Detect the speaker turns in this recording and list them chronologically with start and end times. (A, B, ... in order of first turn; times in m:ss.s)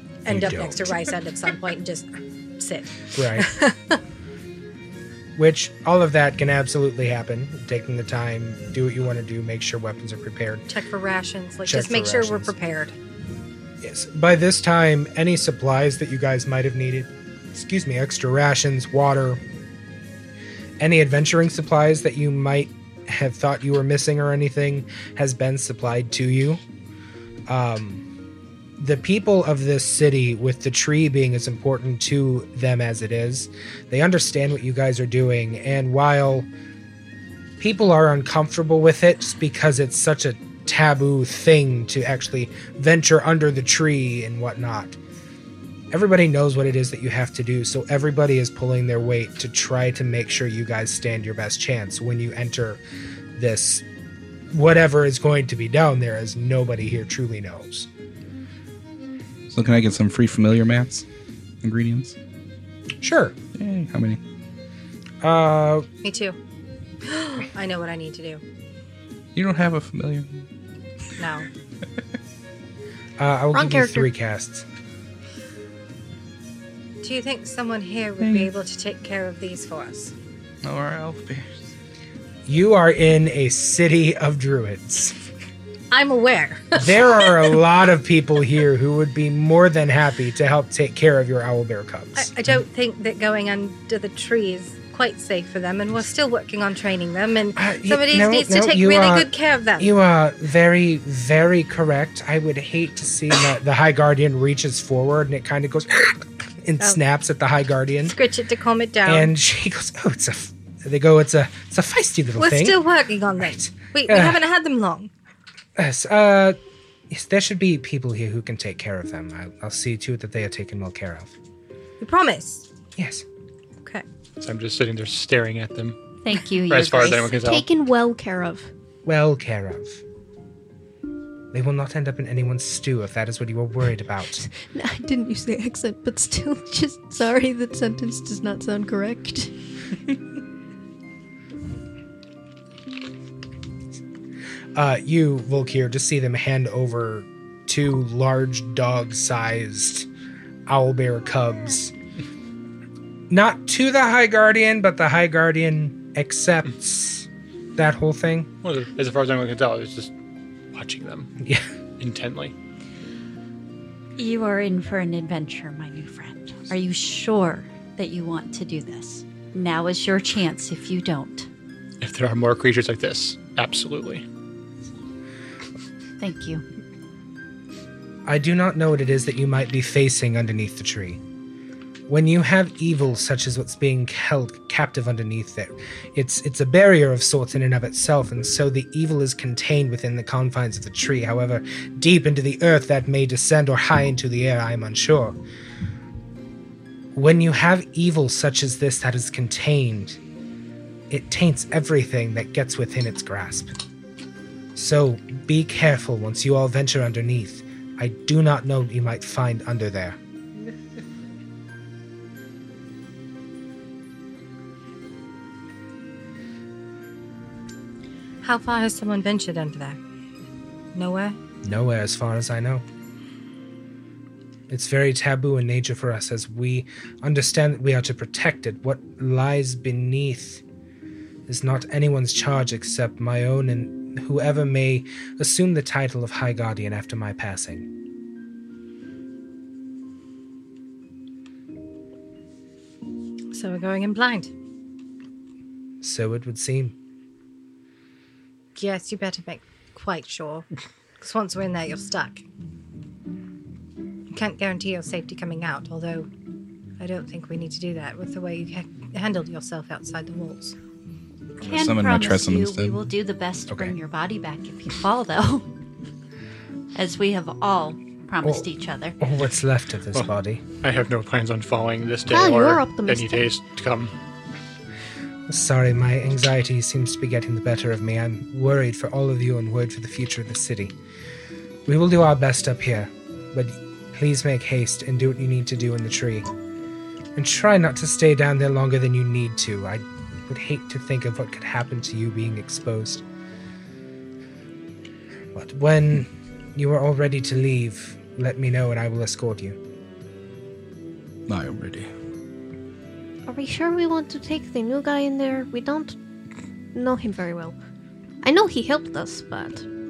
0:00.2-0:04.0 A
0:00.3-0:00.9 B
0:03.1-0:03.5 B
0:05.4-0:10.7 B
0:10.7-0:12.9 A
0:11.7-0:12.5 B
0:13.8-0:19.4 B
0:20.8-0:26.6 B
0:27.5-0:28.0 B
0:28.8-0:36.5 B
0:37.6-0:45.0 B
0:45.9-0:52.8 B
0:53.4-0:53.8 B
0:54.5-0:57.9 B
0:59.5-1:01.0 C
1:01.6-1:02.2 C
1:03.0-1:03.4 B
1:03.6-1:04.2 C
1:05.2-1:05.9 B
1:06.0-1:06.4 A
1:07.1-1:08.4 A
1:09.4-1:10.5 C
1:11.2-1:11.5 A
1:13.2-1:14.6 B
1:13.5-1:14.1 D
1:17.0-1:20.1 A
1:18.2-1:18.5 C
1:20.6-1:21.5 C
1:22.5-1:25.2 B
1:25.9-1:27.3 A
1:26.8-1:32.6 B
1:32.1-1:39.9 A
1:37.6-1:39.3 B
1:39.8-1:48.2 B
1:48.0-1:49.3 A
1:49.1-1:52.8 B
1:52.4-1:55.1 A
1:53.4-1:54.4 B
1:55.8-1:56.6 B
1:57.1-2:01.3 B
2:02.0-2:02.6 A
2:03.0-2:03.2 B
2:04.4-2:06.0 E
2:06.2-2:07.3 F
2:06.7-2:07.7 E
2:07.4-2:08.7 D
2:09.1-2:10.0 B
2:11.5-2:14.5 B
2:14.6-2:19.5 D
2:24.8-2:30.1 B
2:30.7-2:31.9 B
2:33.3-2:38.5 B
2:38.6-2:40.1 E
2:40.7-2:41.3 E
2:41.4-2:41.6 B
2:42.0-2:42.5 E
2:44.2-2:51.5 F
2:52.0-2:54.2 E
2:56.2-2:56.6 F
2:58.2-3:01.2 B
3:02.1-3:15.4 B
3:17.1-3:20.2 B
3:21.1-3:23.7 B
3:24.8-3:30.2 B
3:38.4-3:40.0 A
3:40.9-3:41.4 A
3:41.6-3:42.8 B
3:44.7-3:50.6 B
3:51.5-3:57.9 B
4:03.5-4:04.5 A
4:06.0-4:07.0 B
4:08.8-4:10.6 A
4:11.2-4:12.4 A
4:14.3-4:16.3 A
4:17.0-4:20.8 A
4:21.6-4:25.6 F
4:21.6-4:23.0 C
4:23.7-4:23.9 B
4:26.9-4:29.2 F
4:29.2-4:30.6 B
4:30.8-4:34.1 E
4:32.3-4:33.5 D
4:35.5-4:40.9 B
4:41.9-4:46.5 B
4:47.4-4:53.2 B
4:55.5-4:59.8 B
5:01.5-5:02.1 C
5:03.5-5:06.2 D
5:06.9-5:07.8 D
5:08.4-5:09.9 D